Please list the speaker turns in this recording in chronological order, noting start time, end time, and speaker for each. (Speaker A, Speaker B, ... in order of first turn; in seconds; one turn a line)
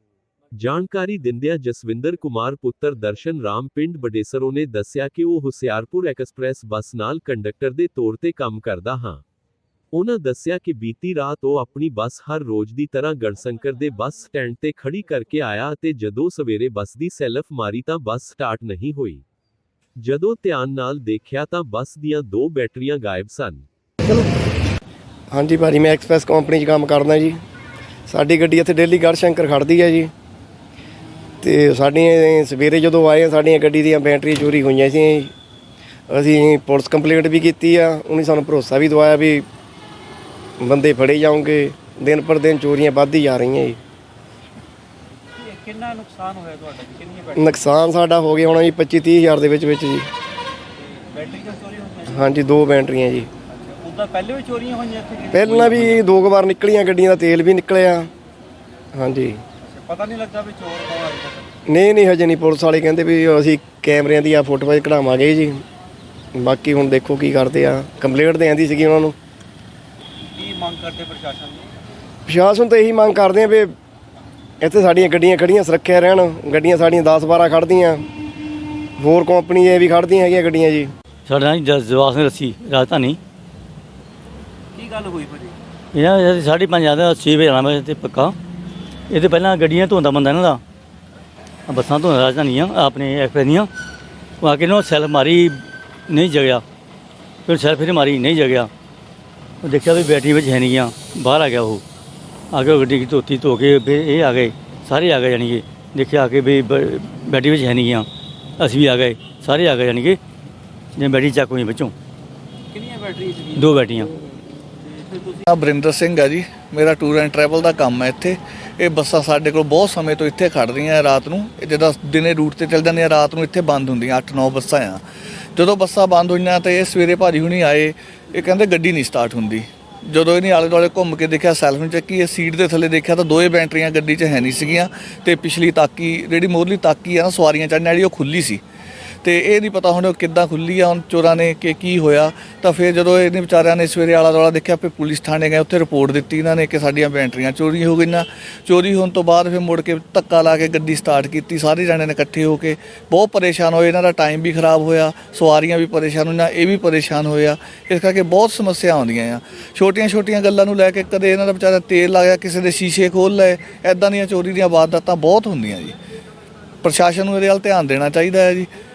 Speaker A: 0.5-9.2
Speaker A: 9.9-19.2
Speaker A: 20.0-23.7
Speaker B: 25.3-27.4
Speaker B: 28.1-30.1
Speaker B: 31.4-35.3
Speaker B: 36.1-39.5
Speaker B: 40.6-43.8
Speaker C: 45.4-47.5
Speaker B: 47.4-50.1
Speaker C: 50.9-52.3
Speaker B: 52.1-53.3
Speaker C: 53.5-56.0
Speaker B: 55.3-58.1
Speaker B: 58.9-59.4
Speaker C: 59.6-61.5
Speaker B: 61.7-65.6
Speaker B: 66.3-69.2
Speaker C: 70.3-71.8
Speaker B: 72.3-73.7
Speaker B: 74.6-78.0
Speaker B: 79.0-80.9
Speaker D: 81.3-83.2
Speaker C: 84.7-85.6
Speaker D: 85.9-88.3
Speaker D: 89.1-90.6
Speaker D: 91.7-93.7
Speaker D: 94.4-96.6
Speaker D: 97.5-98.7
Speaker D: 99.6-101.8
Speaker D: 102.5-108.1
Speaker D: 108.6-110.2
Speaker D: 111.0-111.9
Speaker C: 112.7-114.0
Speaker D: 113.6-114.1
Speaker C: 114.8-115.4
Speaker E: 115.5-125.0
Speaker E: 125.5-138.6
Speaker E: 139.2-165.9
Speaker E: 166.8-168.7